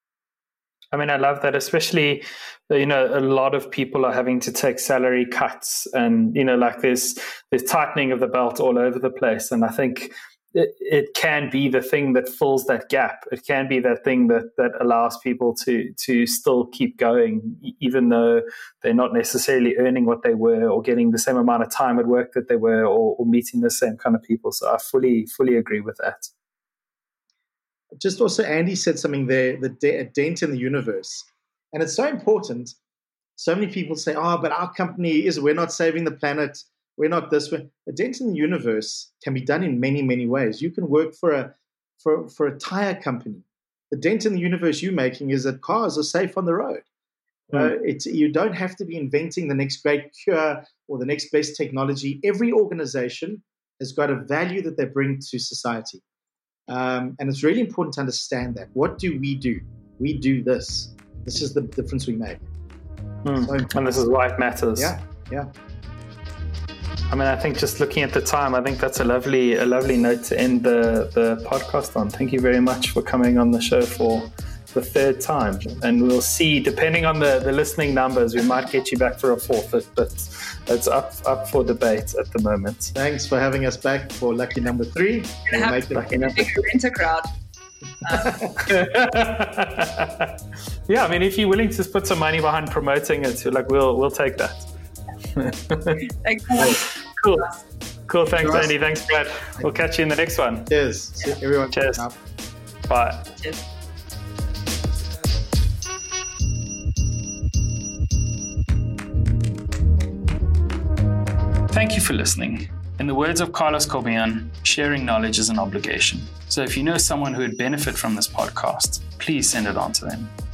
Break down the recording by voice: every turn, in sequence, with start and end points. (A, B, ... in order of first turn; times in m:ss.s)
0:00.9-0:26.3 A
0:28.0-0:32.8 B
0:33.4-0:46.8 B
0:47.5-0:56.0 B
0:56.7-1:02.4 B
1:03.2-1:04.9 A
1:03.4-1:03.7 B
1:04.8-1:05.5 B
1:07.1-1:22.9 A
1:22.9-1:26.4 B
1:25.5-1:27.3 C
1:25.9-1:26.4 A
1:28.0-1:28.4 C
1:28.1-1:28.5 B
1:28.6-1:30.3 A
1:30.9-1:34.7 A
1:35.4-1:36.0 A
1:36.0-1:36.9 C
1:36.6-1:37.5 A
1:38.1-1:40.7 A
1:38.4-1:38.7 B
1:40.7-1:42.2 B
1:41.7-1:42.0 A
1:42.9-1:43.3 A
1:43.3-1:43.6 C
1:51.7-2:00.3 A